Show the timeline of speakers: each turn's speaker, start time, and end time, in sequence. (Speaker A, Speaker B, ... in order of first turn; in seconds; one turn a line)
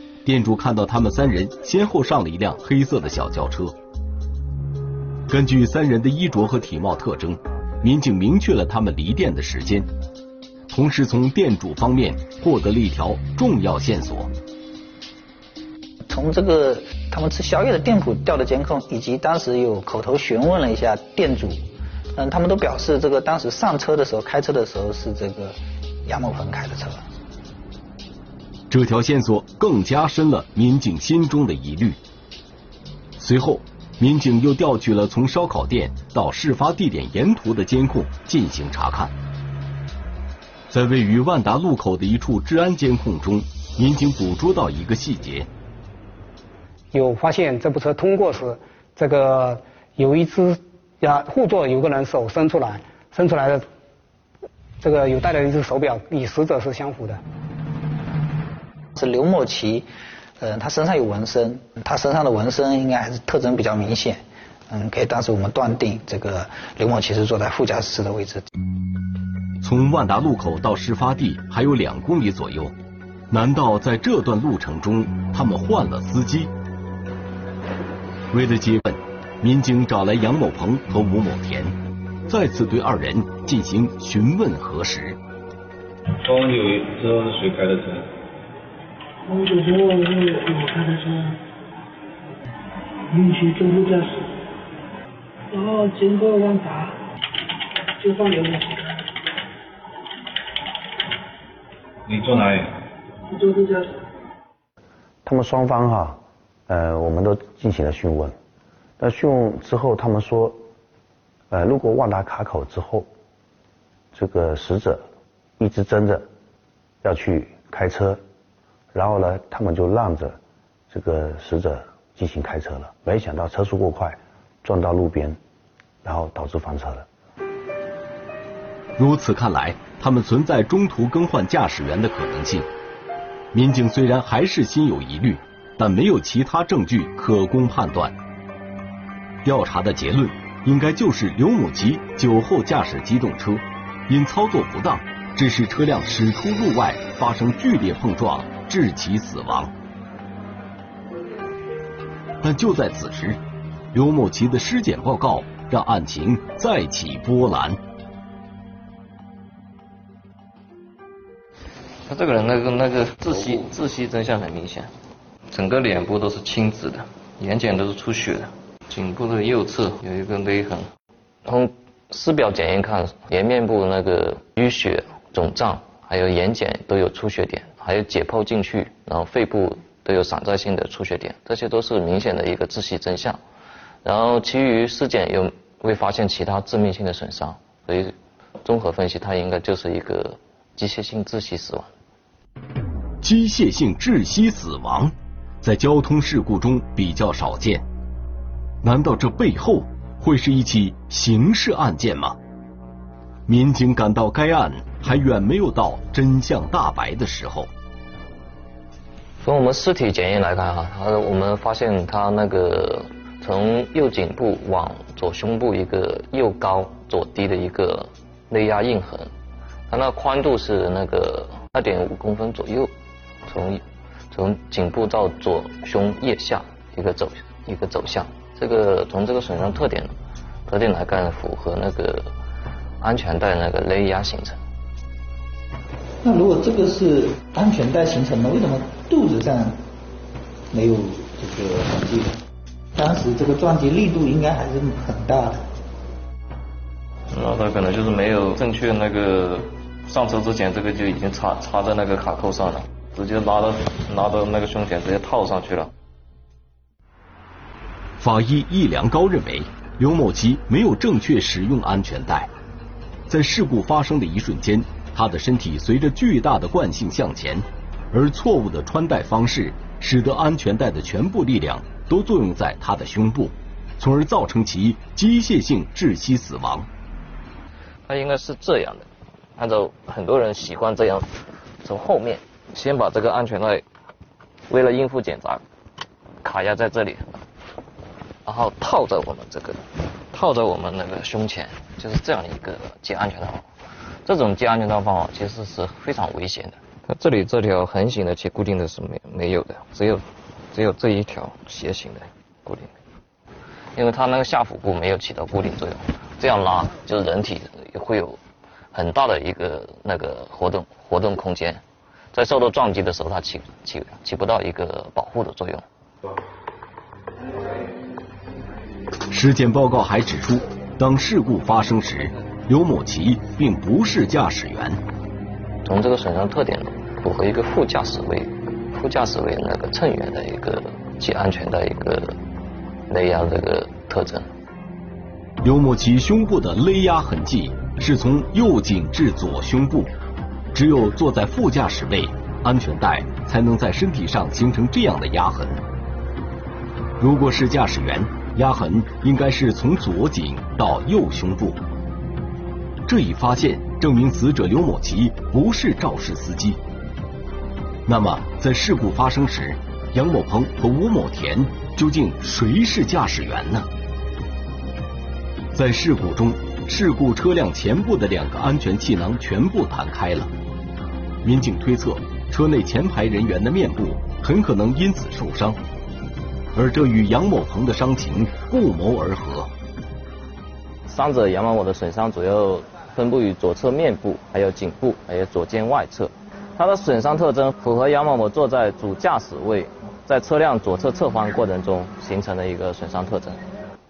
Speaker A: 0.2-3.7
Speaker A: 5.3-9.9
Speaker A: 10.7-14.3
Speaker B: 16.1-21.6
Speaker B: 22.1-27.0
Speaker A: 28.7-32.0
Speaker A: 33.2-39.1
Speaker A: 40.7-45.5
Speaker C: 46.9-53.6
Speaker C: 54.8-57.2
Speaker B: 58.9-59.9
Speaker B: 60.4-68.5
Speaker A: 69.6-72.7
Speaker A: 73.3-76.5
Speaker A: 78.3-81.8
Speaker A: 82.3-85.2
Speaker D: 86.2-88.1
Speaker E: 89.2-91.4
Speaker E: 93.1-94.3
Speaker E: 95.5-97.0
Speaker E: 98.0-99.0
Speaker D: 102.1-102.7
Speaker E: 103.3-103.9
Speaker F: 105.2-108.3
Speaker F: 109.0-110.6
Speaker F: 111.5-113.1
Speaker F: 114.1-115.0
Speaker F: 115.6-116.3
Speaker F: 117.0-118.2
Speaker F: 118.9-120.4
Speaker F: 120.9-125.4
Speaker F: 126.0-127.1
Speaker A: 129.0-132.7
Speaker A: 133.5-138.1
Speaker A: 139.4-149.7
Speaker A: 152.4-153.4
Speaker A: 153.9-157.8
Speaker G: 162.1-164.9
Speaker G: 165.5-170.9
Speaker G: 171.4-183.4
Speaker G: 184.0-191.9
Speaker A: 193.2-197.8
Speaker A: 198.8-202.4
Speaker A: 203.5-207.7
Speaker G: 209.4-219.3
Speaker G: 219.9-222.9
Speaker G: 223.5-230.1
Speaker G: 230.7-232.3
Speaker G: 233.0-234.6
Speaker B: 236.2-239.8
Speaker B: 240.7-242.4
Speaker B: 242.9-245.6
Speaker G: 247.3-255.9
Speaker A: 258.2-262.5
Speaker A: 263.3-276.9
Speaker G: 278.1-281.3
Speaker G: 281.8-283.8
Speaker G: 284.7-285.6
Speaker G: 286.4-287.4
Speaker G: 288.4-293.6
Speaker G: 294.2-302.9
Speaker G: 303.9-308.4
Speaker G: 308.9-311.8
Speaker G: 312.3-315.8
Speaker A: 319.3-325.0
Speaker G: 325.8-332.4
Speaker G: 333.1-334.5
Speaker A: 335.6-340.1
Speaker A: 340.7-345.8
Speaker A: 347.2-351.8
Speaker A: 353.1-356.8
Speaker A: 358.1-363.9
Speaker A: 365.7-370.5
Speaker A: 371.4-375.8
Speaker A: 376.7-379.7
Speaker G: 381.1-393.6